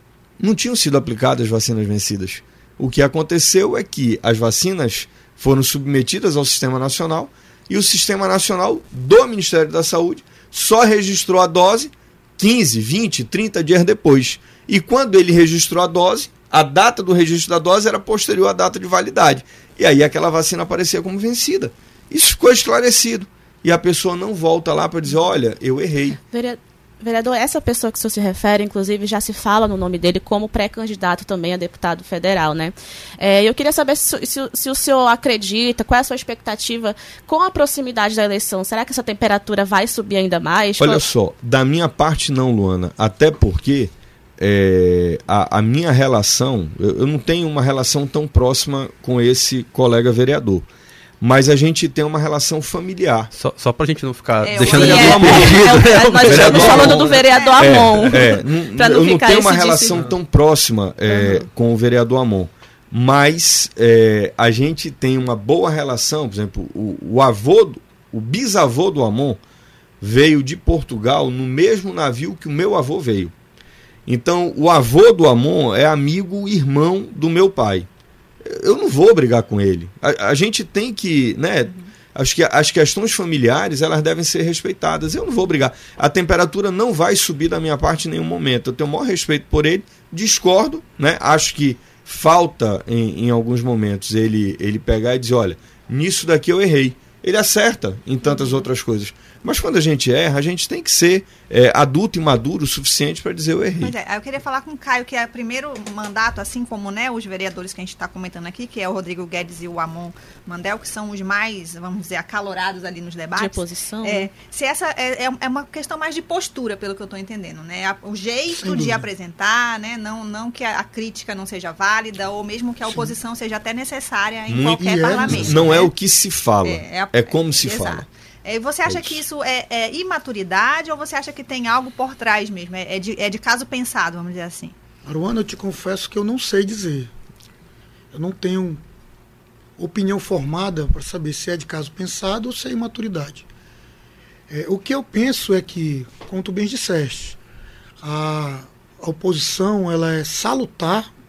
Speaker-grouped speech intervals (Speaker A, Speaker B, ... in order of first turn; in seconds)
Speaker A: 0.4-26.2, 40.8-50.6, 51.2-53.3, 54.8-69.4, 70.0-73.3, 74.1-77.9, 78.4-103.9, 124.5-128.1, 128.8-129.2
Speaker B: 26.3-41.0, 54.6-60.0, 113.3-114.3
Speaker C: 53.3-57.1
Speaker D: 54.4-55.6, 56.4-57.9, 103.8-125.9, 126.6-134.7
Speaker E: 118.5-119.0, 124.8-125.8, 135.1-137.1, 138.1-138.8, 139.8-143.4, 144.5-147.4, 148.0-151.1